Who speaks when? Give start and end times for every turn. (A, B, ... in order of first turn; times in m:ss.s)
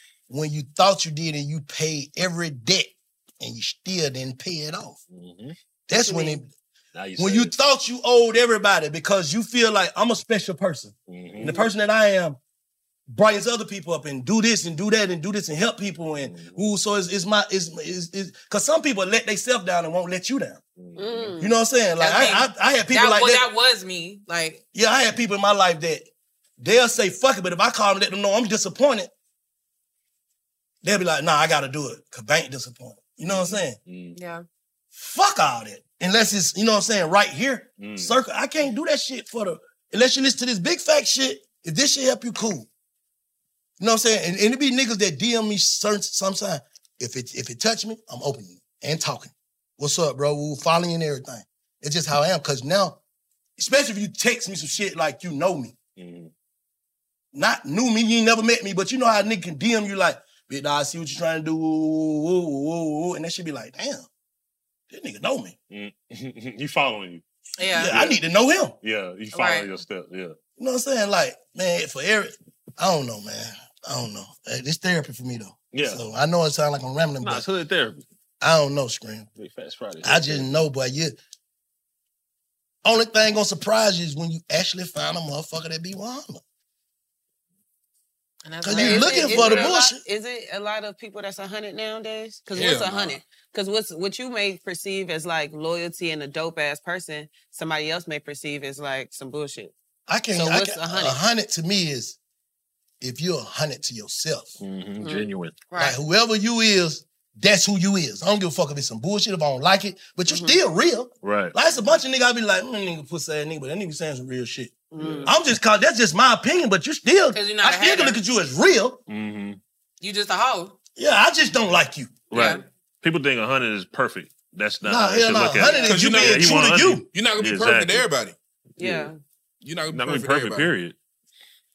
0:00.3-0:05.0 A
0:05.1-0:05.6 B
0:05.9-0:06.5 A
0:05.9-0:06.4 C
0:06.9-0:07.5 B
0:07.2-0:12.4 A
0:11.1-0:11.6 B
0:13.1-0:20.6 A
0:16.2-0:16.7 B
0:20.8-0:21.4 B
0:21.0-0:21.5 C
0:21.4-0:23.5 A
0:22.0-0:24.6 D
0:24.7-0:26.1 A
0:26.6-0:29.1 A
0:30.8-0:33.8 A
0:33.2-0:34.2 B
0:34.2-0:34.4 D
0:34.9-0:42.7 A
0:37.8-0:38.2 B
0:43.8-0:53.0 A
0:53.6-0:55.8 A
0:56.0-0:56.3 B
0:57.3-1:04.1 A
1:04.9-1:05.6 A
1:05.7-1:07.2 B
1:07.6-1:07.9 D
1:07.7-1:08.8 A
1:07.9-1:08.2 B
1:08.8-1:10.4 B
1:09.3-1:09.7 D
1:10.6-1:17.5 A
1:15.7-1:16.0 B
1:17.2-1:18.0 B
1:18.4-1:19.3 A
1:19.4-1:20.5 B
1:20.0-1:21.2 A
1:22.8-1:26.4 A
1:28.4-1:29.6 D
1:28.6-1:30.0 A
1:28.7-1:39.7 C
1:32.5-1:33.2 E
1:40.1-1:42.2 A
1:40.4-1:41.2 C
1:43.0-1:44.6 A
1:44.6-1:45.6 B
1:45.0-1:45.3 C
1:45.7-1:46.0 D
1:45.8-1:59.0 A
1:50.3-1:50.6 C
1:51.2-1:51.5 B
1:54.9-1:55.3 C
1:55.0-1:55.3 B
1:57.3-1:58.2 D
1:59.1-1:59.6 B
2:00.0-2:00.8 D
2:01.0-2:02.3 A
2:02.3-2:08.1 B
2:02.3-2:02.6 D
2:04.8-2:07.0 A
2:05.6-2:06.0 C
2:05.9-2:08.4 E
2:08.8-2:09.2 C
2:08.8-2:09.1 B
2:09.6-2:10.7 E
2:09.9-2:11.0 B